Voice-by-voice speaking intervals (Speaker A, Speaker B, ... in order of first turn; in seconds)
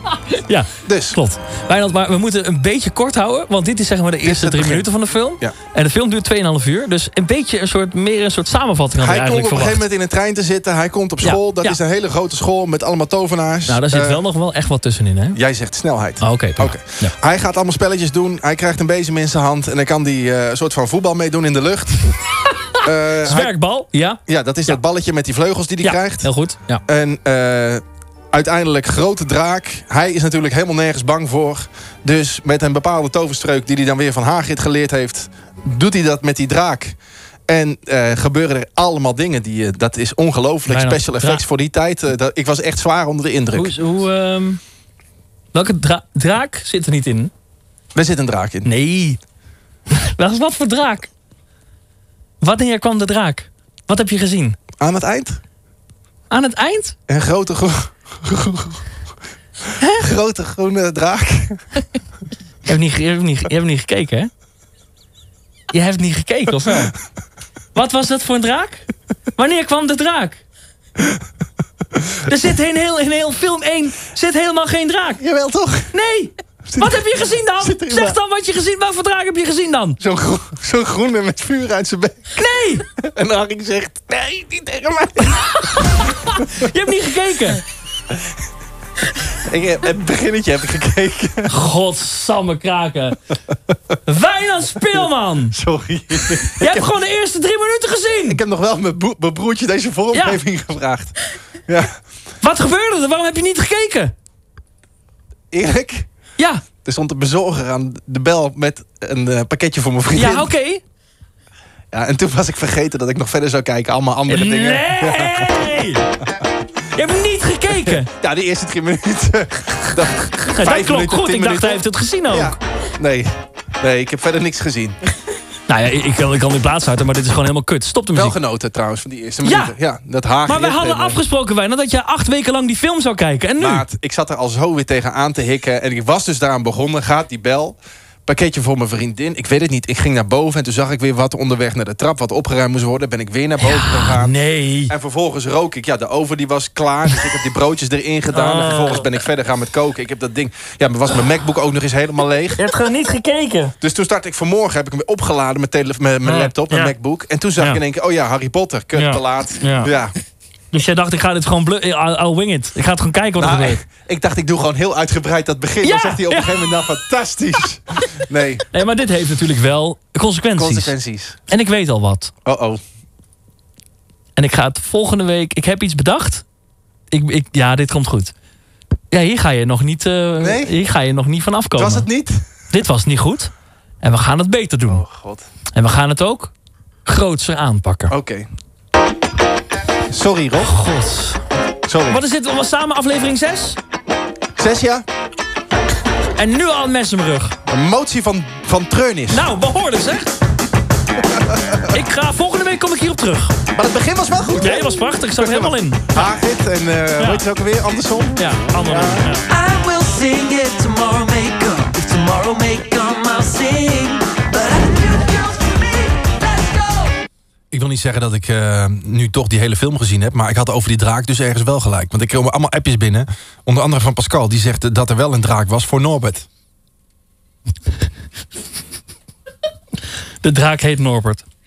Speaker A: 0.3-9.8, 11.2-11.8, 13.7-15.4, 16.2-17.1, 22.7-24.8, 25.8-26.8, 40.7-41.4, 43.5-44.6, 45.5-47.3, 48.6-49.2, 49.9-51.1, 52.4-54.6, 56.3-57.0, 62.6-64.3, 65.7-66.9, 67.7-68.8, 69.4-70.4, 72.3-75.2, 75.9-80.0, 82.4-82.8, 86.1-87.6, 91.5-93.2, 94.1-95.5, 96.6-98.4, 100.1-100.4, 102.4-104.1, 106.4-106.6, 110.1-110.8, 114.3-116.0, 116.9-118.1, 120.5-122.6, 125.7-128.3, 129.4-129.7, 130.4-133.8, 143.7-144.9, 148.3-149.1, 152.6-153.7, 156.2-156.9, 158.9-159.9, 160.7-163.8, 165.8-166.7, 168.7-170.9, 171.5-172.3, 174.4-176.4, 177.1-178.3, 179.1-182.1, 182.7-183.5, 184.0-185.0, 185.8-186.5, 187.1-188.1, 190.6-191.4, 192.1-193.8, 196.4-197.6, 199.3-200.3, 201.9-203.5, 204.6-206.3, 207.2-207.4, 208.4-209.4, 230.4-231.4
Speaker B: 0.8-1.2, 4.2-4.8, 9.0-14.2, 15.3-22.1, 22.8-23.5, 24.3-26.3, 26.9-36.9, 37.5-43.7, 47.9-48.7, 54.8-55.4, 57.1-58.8, 59.7-61.6, 75.2-75.9, 76.7-77.0, 77.6-78.2, 80.0-82.4, 83.0-85.6, 89.4-91.5, 95.5-96.9, 98.3-101.1, 101.7-102.0, 105.5-106.1, 106.8-110.5, 111.9-115.5, 117.8-125.0, 128.1-131.2, 133.6-144.3, 144.9-152.6, 153.8-160.1, 163.4-168.7, 170.6-171.4, 172.4-172.8, 180.4-180.7, 181.8-182.4, 184.9-185.4, 188.1-188.5, 190.1-190.8, 191.8-192.2, 194.6-195.0, 197.7-199.5, 201.3-201.9, 203.7-209.2, 217.7-226.5
Speaker C: 209.5-215.7, 216.4-217.1